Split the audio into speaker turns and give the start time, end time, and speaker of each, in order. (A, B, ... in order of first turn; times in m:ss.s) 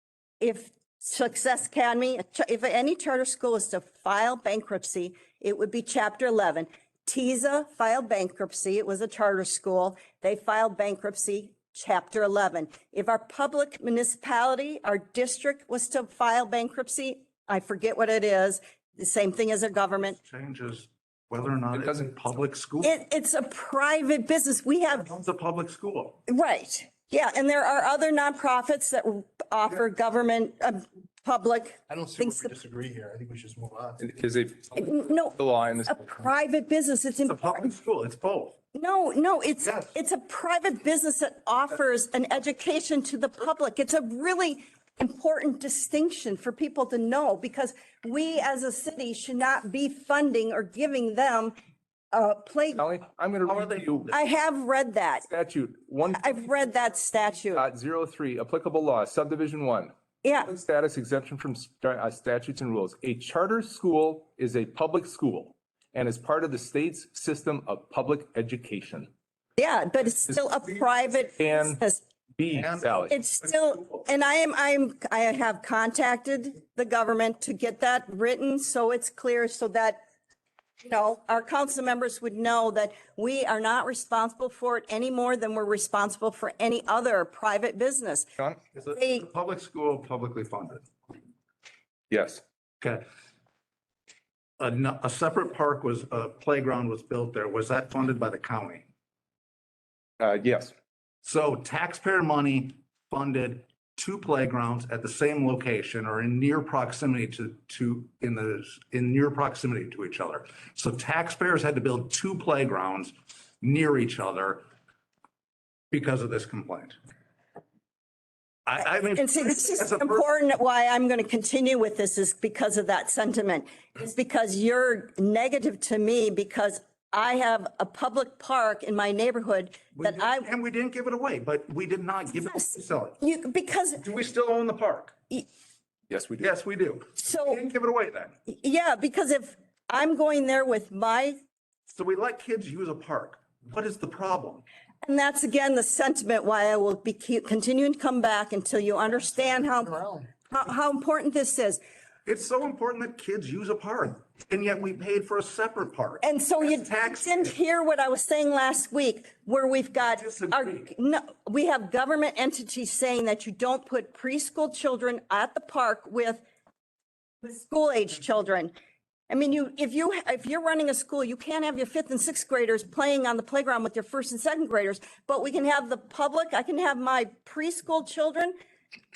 0:00.4-0:20.2 A
0:20.2-0:22.9 B
0:21.7-0:22.1 C
0:22.8-0:25.1 A
0:25.0-0:26.2 B
0:26.3-0:32.5 A
0:31.9-0:34.0 D
0:34.0-0:36.1 C
0:34.7-0:37.7 A
0:37.3-0:38.6 B
0:38.7-0:51.5 A
0:39.6-0:39.9 B
0:52.1-0:52.9 A
0:52.8-0:54.2 C
0:53.4-0:54.1 B
0:54.1-0:55.3 A
0:55.3-0:56.4 C
0:56.1-0:57.6 A
0:57.5-0:59.9 C
1:00.2-1:00.5 A
1:00.4-1:09.1 C
1:09.6-1:12.0 A
1:11.4-1:11.8 C
1:12.4-1:13.1 C
1:12.5-1:13.1 B
1:13.1-1:20.0 A
1:20.8-1:28.3 A
1:28.7-1:30.8 B
1:28.9-1:29.2 A
1:32.1-1:32.4 C
1:32.8-1:33.0 B
1:34.6-1:38.9 B
1:40.2-1:40.7 C
1:41.2-1:54.6 B
1:55.9-1:57.0 B
1:58.6-2:00.2 B
1:59.1-2:10.5 A
2:10.0-2:13.2 B
2:12.3-2:14.0 A
2:14.0-2:15.1 B
2:16.1-2:16.5 C
2:16.4-2:18.3 B
2:17.2-2:17.6 A
2:18.5-2:21.4 A
2:21.9-2:24.6 B
2:25.0-2:31.8 A
2:32.2-2:37.5 B
2:36.2-2:46.4 A
2:40.1-2:40.9 B
2:47.4-2:48.7 A
2:49.3-2:58.5 A